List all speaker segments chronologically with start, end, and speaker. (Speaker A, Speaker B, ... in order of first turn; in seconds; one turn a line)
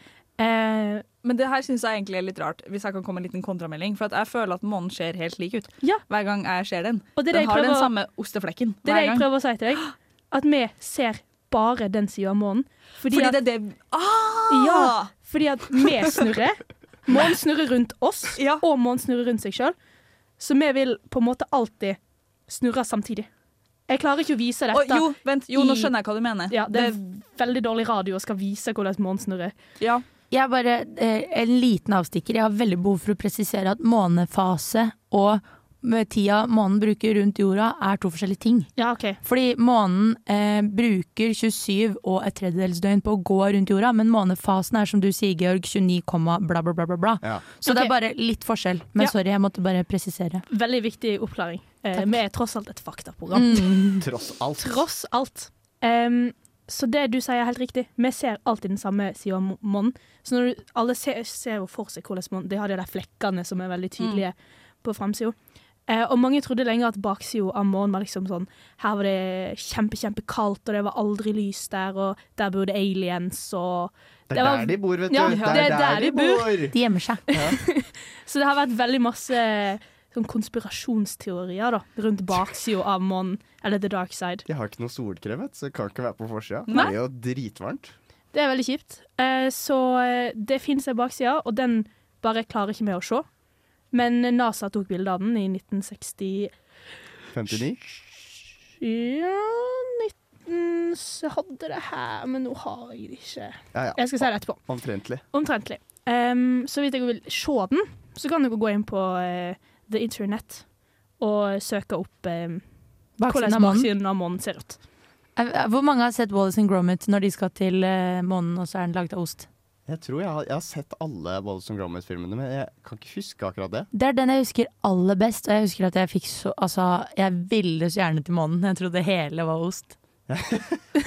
Speaker A: 0.4-1.0
Speaker B: 1.2-9.5
Speaker A: 7.2-7.9
Speaker A: 8.8-13.4
Speaker B: 13.1-15.1
Speaker A: 14.5-19.7
Speaker B: 18.4-18.6
Speaker A: 20.4-23.3
Speaker A: 23.9-25.9
Speaker B: 24.7-27.0
Speaker A: 26.5-29.6
Speaker C: 30.3-50.4
Speaker A: 38.8-39.2
Speaker A: 47.6-47.9
Speaker A: 50.5-53.8
Speaker C: 51.9-52.2
Speaker C: 53.3-54.0
Speaker D: 54.0-54.8
Speaker A: 54.6-76.7
Speaker B: 64.0-64.2
Speaker D: 74.3-77.6
Speaker C: 76.7-77.2
Speaker A: 77.3-84.4
Speaker D: 84.5-87.9
Speaker A: 88.3-93.2
Speaker A: 93.9-96.8
Speaker D: 97.3-97.8
Speaker A: 97.5-114.8
Speaker D: 103.7-105.2
Speaker C: 113.2-113.9
Speaker C: 115.4-119.5
Speaker D: 119.9-123.9
Speaker C: 123.9-129.9
Speaker D: 130.3-130.9